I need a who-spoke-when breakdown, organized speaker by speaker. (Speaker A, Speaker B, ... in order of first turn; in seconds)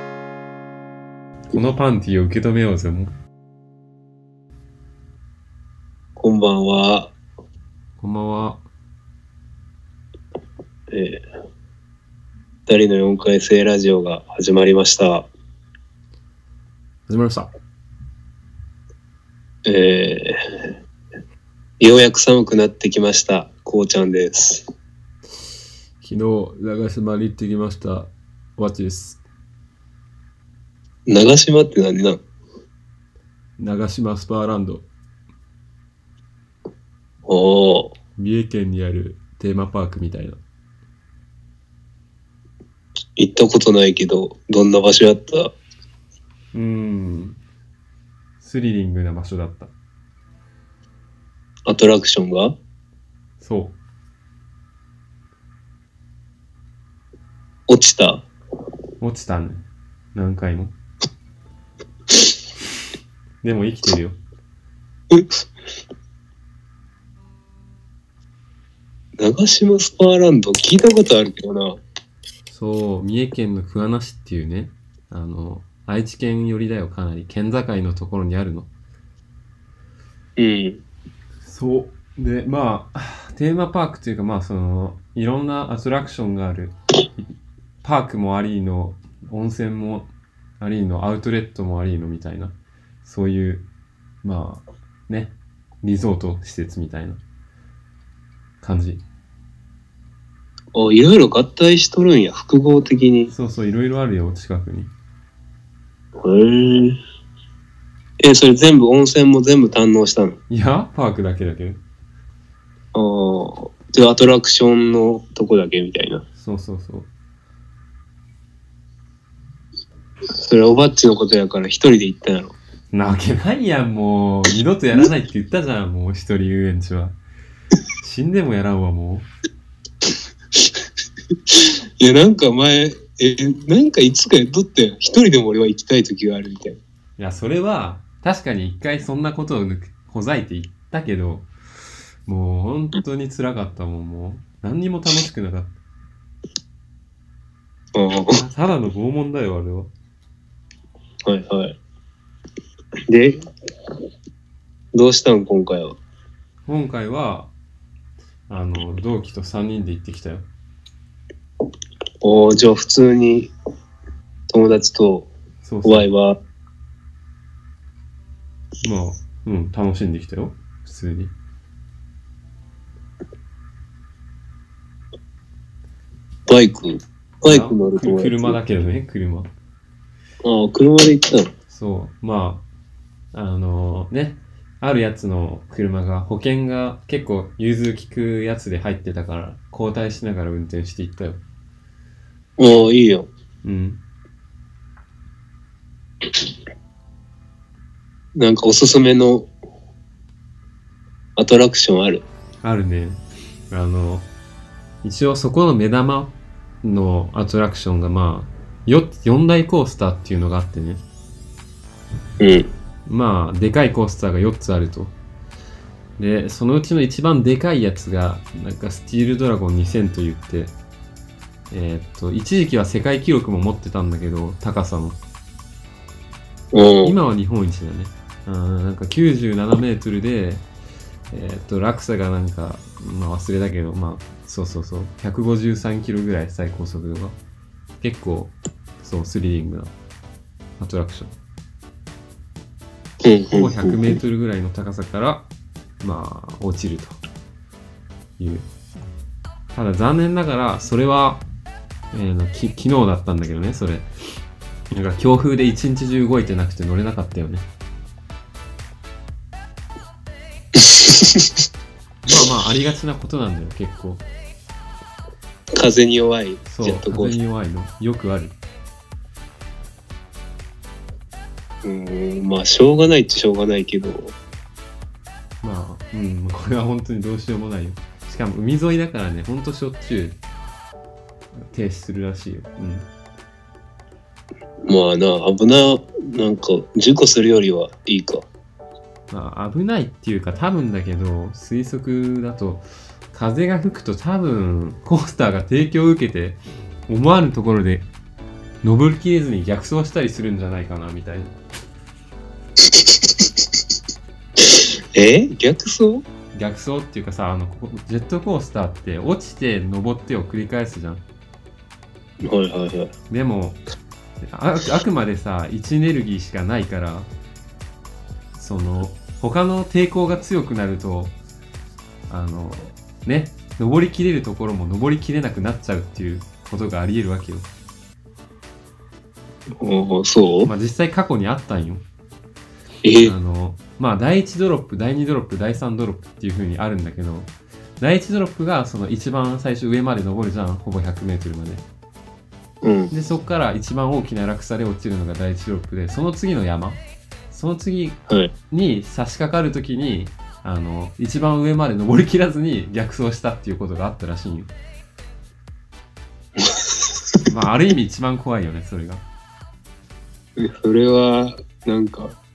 Speaker A: 1.5-3.1, 8.0-8.6, 17.1-17.5, 26.0-29.2, 33.6-34.9, 38.2-40.4, 46.5-47.4, 48.4-49.7, 53.4-53.8, 59.0-59.6, 60.1-60.7, 63.4-64.2, 72.5-78.7, 81.4-87.3, 87.8-93.7, 94.2-97.2, 98.6-99.0, 103.3-104.9, 110.5-111.8, 116.4-117.1, 122.9-127.2, 128.0-129.3, 137.2-141.5, 142.2-145.7, 148.3-149.9, 156.7-157.5, 158.5-160.4, 165.6-166.1, 168.8-171.3, 177.4-179.5, 181.7-182.6, 183.3-191.4, 193.6-194.0, 202.6-204.3, 205.0-211.0, 213.1-215.1, 216.2-220.7, 221.7-225.2, 227.0-230.6, 231.3-237.3, 238.0-239.9, 240.8-241.3, 243.5-245.5, 246.0-247.2, 248.4-248.7, 249.7-251.4, 252.1-254.1, 254.9-257.6, 262.3-264.2, 266.7-268.6, 275.6-280.4, 281.6-283.1, 289.3-298.1, 298.8-301.5, 306.5-311.2, 313.3-313.8, 314.4-317.3, 318.5-321.4, 322.3-327.7, 330.6-332.0, 333.2-341.8, 343.1-354.7, 357.4-359.2
Speaker B: 6.2-7.1, 10.9-11.2, 12.7-15.3, 19.6-20.4, 21.8-24.6, 31.1-32.2, 37.3-37.9, 43.2-45.5, 51.7-52.5, 57.7-58.3, 69.2-71.8, 80.4-80.8, 100.7-103.3, 106.2-107.0, 108.2-110.4, 112.9-116.2, 120.4-122.5, 131.5-136.8, 147.9-148.4, 151.2-151.8, 153.1-153.4, 154.9-156.0, 162.2-163.5, 164.5-165.3, 165.8-166.4, 176.5-178.6, 180.4-181.5, 192.6-193.3, 198.3-199.5, 201.4-202.2, 212.4-212.7, 226.7-227.1, 243.2-244.1, 260.8-261.5, 265.7-267.4, 271.8-274.4, 284.9-288.5, 302.9-303.2, 304.8-306.2, 312.4-313.1, 329.8-330.7, 333.0-333.3, 342.8-343.1, 356.6-356.9, 360.6-362.3